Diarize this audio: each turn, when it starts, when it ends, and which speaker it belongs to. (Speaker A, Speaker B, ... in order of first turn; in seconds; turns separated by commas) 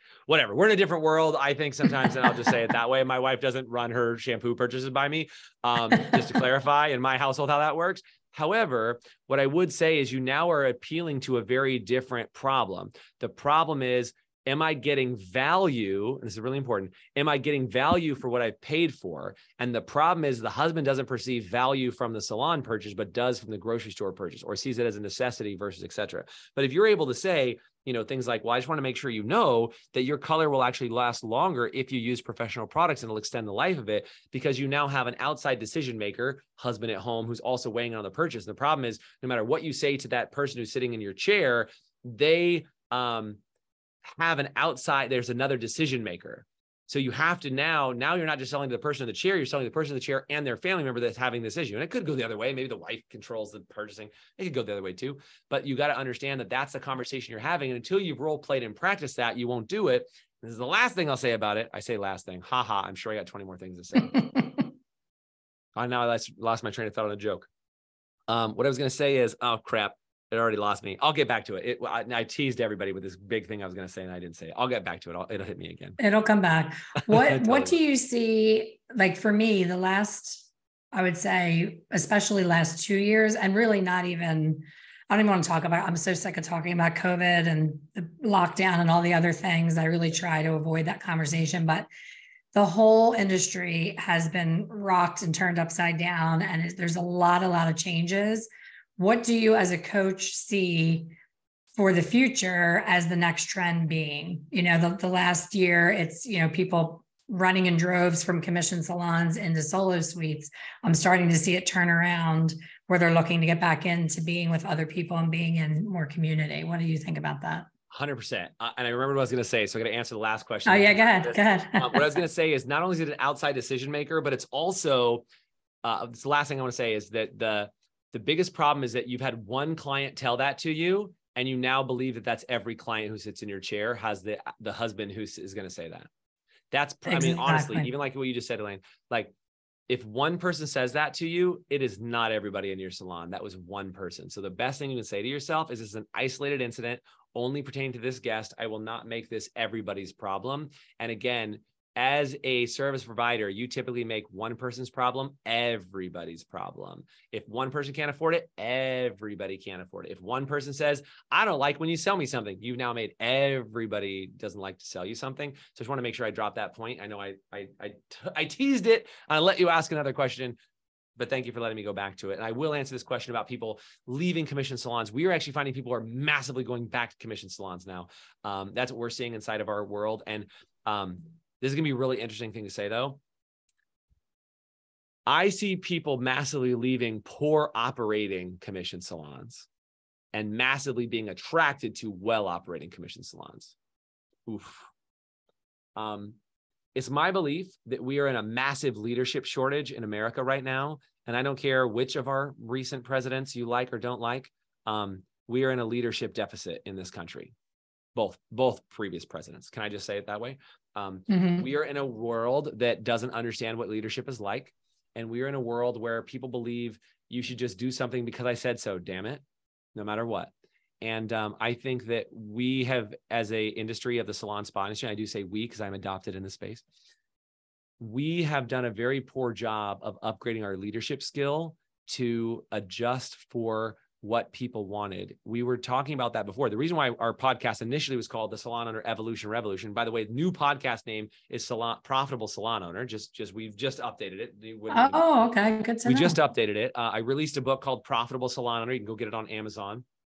Speaker A: 0.3-43.4, Speaker A: 44.1-64.3, Speaker B: 64.2-64.4, Speaker A: 65.8-67.5, Speaker A: 68.3-76.0, Speaker B: 76.0-91.9, Speaker A: 77.1-77.8, Speaker B: 92.5-101.1, Speaker B: 101.8-117.7, Speaker A: 117.9-125.2, Speaker B: 120.7-122.2, Speaker A: 125.8-136.1, Speaker A: 136.7-139.3, Speaker B: 137.1-137.9, Speaker A: 139.9-170.6, Speaker A: 171.2-183.2, Speaker A: 185.3-189.7, Speaker A: 190.3-193.8, Speaker A: 194.5-194.9, Speaker A: 196.0-196.4, Speaker A: 196.9-207.5, Speaker A: 208.2-219.4, Speaker B: 211.3-211.7, Speaker A: 219.9-226.8, Speaker A: 228.0-245.3, Speaker B: 244.9-246.4, Speaker A: 246.1-250.1